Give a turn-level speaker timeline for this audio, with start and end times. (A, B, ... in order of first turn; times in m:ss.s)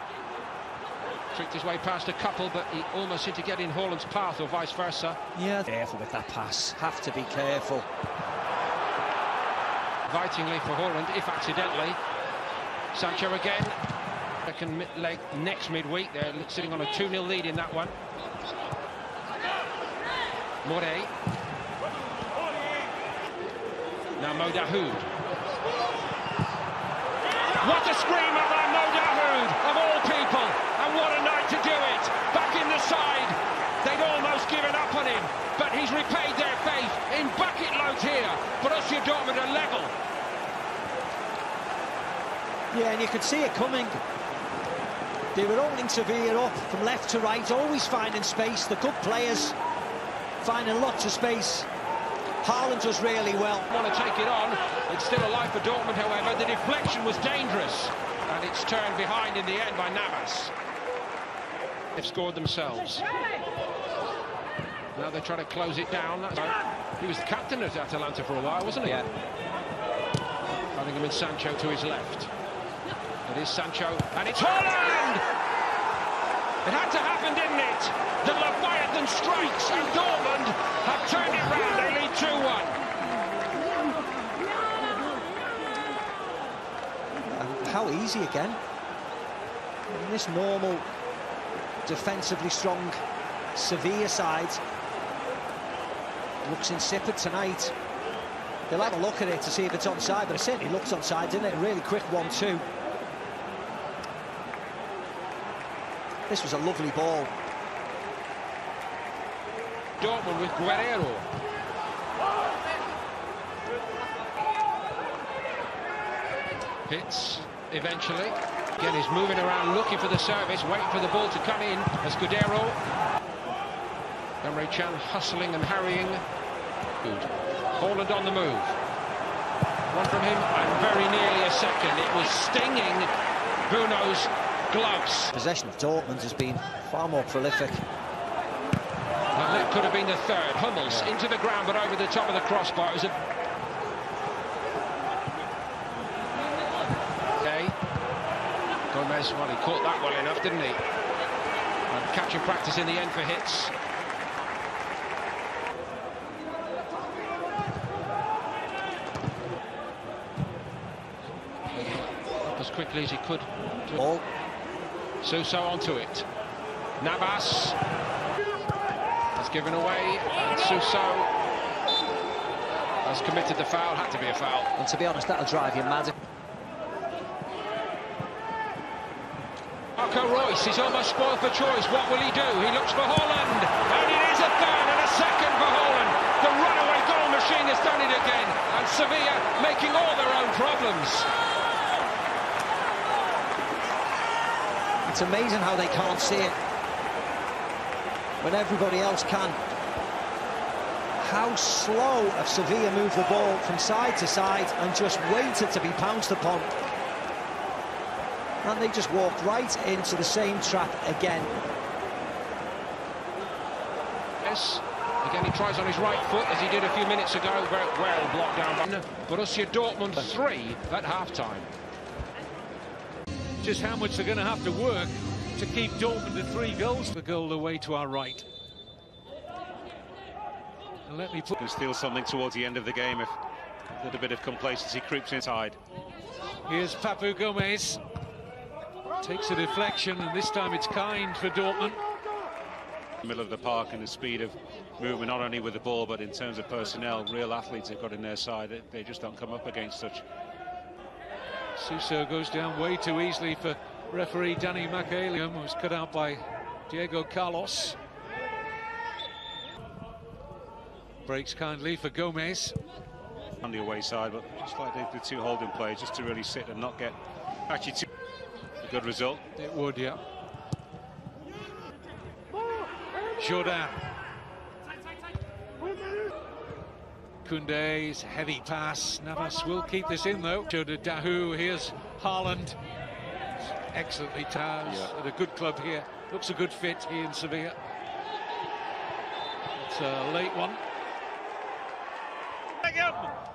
0:01.3-0:05.2 A
0:05.3-0:07.8 B
0:10.1-0:12.0 A
0:12.9-0:13.8 A
0:14.4-0:18.0 A
0:20.6-0:21.1 A
0:24.2-0:25.1 A
0:27.6-0:39.9 A
0:42.7-0:44.0 B
0:45.3-0:49.6 B
0:50.4-0:51.7 B
0:52.4-0:53.7 B
0:53.7-1:00.5 A
1:02.0-1:03.0 A
1:04.9-1:09.0 A
1:10.7-1:12.3 A
1:13.2-1:15.2 A
1:16.6-1:22.8 A
1:27.3-1:28.6 B
1:29.9-1:30.8 B
1:31.8-1:33.0 B
1:33.5-1:34.6 B
1:36.4-1:37.7 B
1:38.7-1:42.6 B
1:46.3-1:47.3 B
1:50.0-1:51.3 A
1:56.8-2:02.8 A
2:04.4-2:06.2 A
2:07.0-2:08.8 A
2:09.9-2:13.1 A
2:13.7-2:15.3 A
2:15.3-2:17.8 B
2:19.3-2:23.1 A
2:27.4-2:27.7 A
2:28.9-2:30.8 A
2:31.9-2:33.7 A
2:41.7-2:44.0 A
2:44.0-2:44.2 B
2:45.2-2:46.2 A
2:47.0-2:47.8 A
2:49.4-2:51.3 A
2:53.0-2:54.7 A
2:54.8-2:56.1 B
3:00.0-3:11.3 A
3:15.0-3:16.5 B
3:18.4-3:19.6 B
3:21.2-3:26.7 B
3:28.6-3:31.5 B
3:34.4-3:41.7 A
3:43.6-3:48.4 C
3:51.0-3:51.6 C
3:51.6-3:53.4 D
3:54.0-3:55.8 D
3:56.7-3:58.0 C
3:59.2-4:02.0 C
4:03.2-4:10.2 D
4:11.8-4:18.0 C
4:21.2-4:22.8 C
4:23.6-4:28.0 D
4:28.8-4:29.4 D
4:29.5-4:30.2 C
4:33.4-4:34.0 C
4:37.4-4:42.8 C
4:43.6-4:47.8 C
4:49.7-4:50.8 C
4:52.8-4:53.3 C